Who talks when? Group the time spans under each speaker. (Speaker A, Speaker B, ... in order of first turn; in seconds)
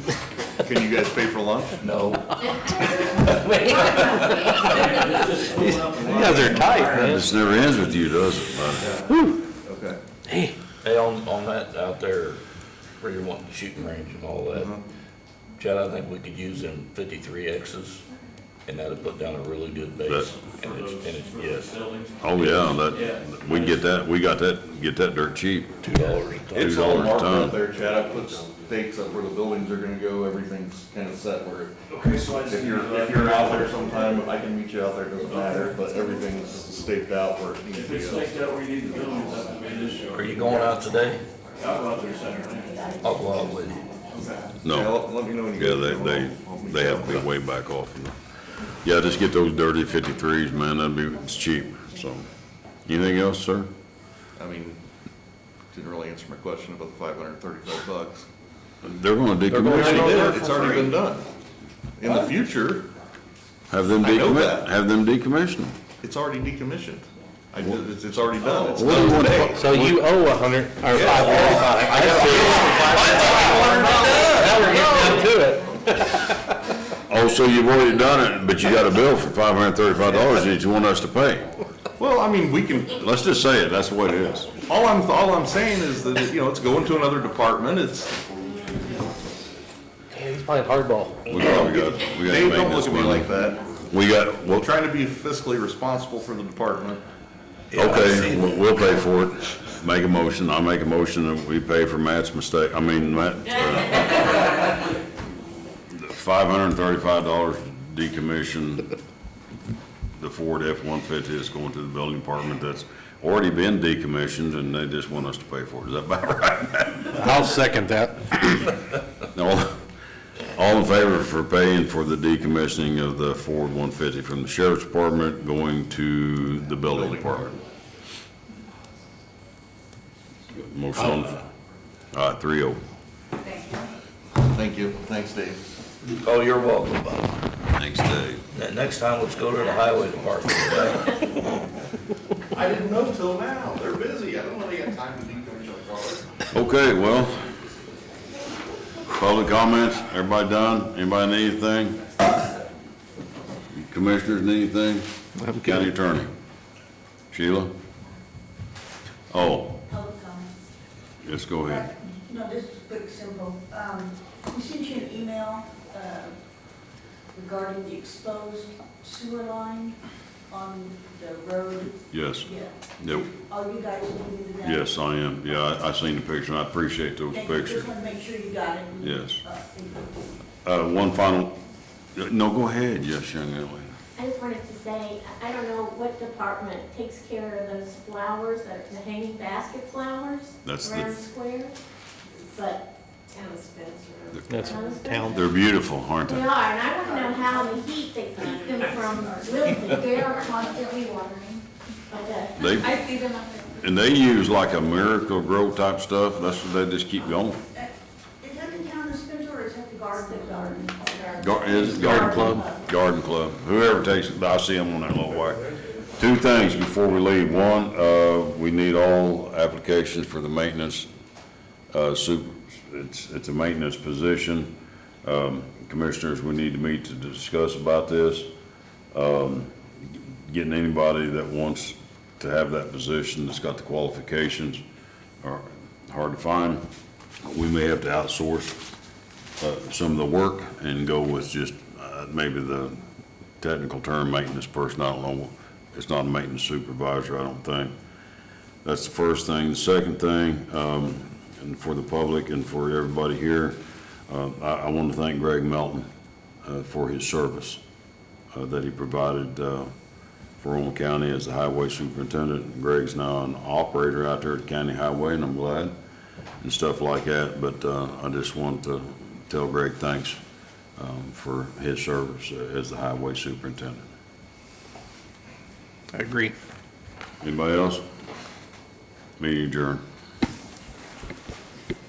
Speaker A: 0.6-1.8, 5.5-7.2, 8.8-10.0, 14.5-14.8, 26.5-31.8, 32.3-38.3, 44.7-47.2, 54.4-54.8, 55.7-58.3, 59.6-61.3, 62.0-62.9, 64.0-64.7, 66.0-69.7, 70.8-75.2, 82.0-83.0, 84.6-88.2, 91.3-93.6, 94.5-97.0, 126.9-127.5, 134.4-135.6, 142.5-146.3
Speaker B: 1.8-5.1, 10.8-12.4, 13.0-14.7, 15.6-18.0, 18.7-21.8, 25.8-26.6, 40.1-41.2, 43.0-43.8, 97.7-98.7, 136.2-137.4, 138.5-141.1
Speaker C: 4.8-7.5, 20.3-23.8, 31.9-34.0, 35.3-35.8, 37.7-40.8, 41.6-42.9, 44.1-44.4, 72.8-74.4
Speaker D: 5.6-7.3, 9.1-9.4, 59.5-60.9, 68.9-76.2, 90.1-91.3, 117.2-118.2, 194.5-195.4, 212.0-212.6
Speaker E: 6.9-8.9, 20.1-20.3, 22.2-27.6, 44.6-45.0, 45.5-48.2, 48.8-52.3, 52.9-53.7, 58.8-60.7, 63.7-65.8, 68.6-70.1, 77.1-81.5, 82.9-84.6, 91.2-93.3, 93.9-94.7, 97.7-104.5, 105.9-108.9, 110.2-117.5, 118.3-118.7, 119.3-119.8, 120.5-127.6, 130.5-131.4, 132.1-132.8, 137.8-138.4, 146.5-147.5, 149.1-152.0, 153.7-156.3, 157.3-157.7, 159.3-159.8, 161.2-161.9, 172.1-173.3, 174.6-177.9, 179.0-179.4, 180.6-181.6, 182.2-183.9, 190.7-191.1, 194.3-196.5, 202.6-203.1, 203.8-207.6, 211.4-221.1, 221.9-228.5, 229.1-234.8, 235.4-236.8, 237.4-238.8, 239.6-243.0, 243.6-247.9, 248.8-256.1, 256.6-257.8, 258.5-259.9, 260.6-265.9, 266.6-270.4, 271.0-274.0, 277.4-278.1, 279.4-280.0
Speaker F: 71.1-72.0, 159.9-160.5, 161.7-166.4, 167.3-170.0, 170.5-174.9, 177.3-180.2, 197.1-197.8, 199.1-201.6, 207.7-212.8
Speaker G: 184.2-191.8, 192.4-195.4, 196.3-200.8, 202.1-202.7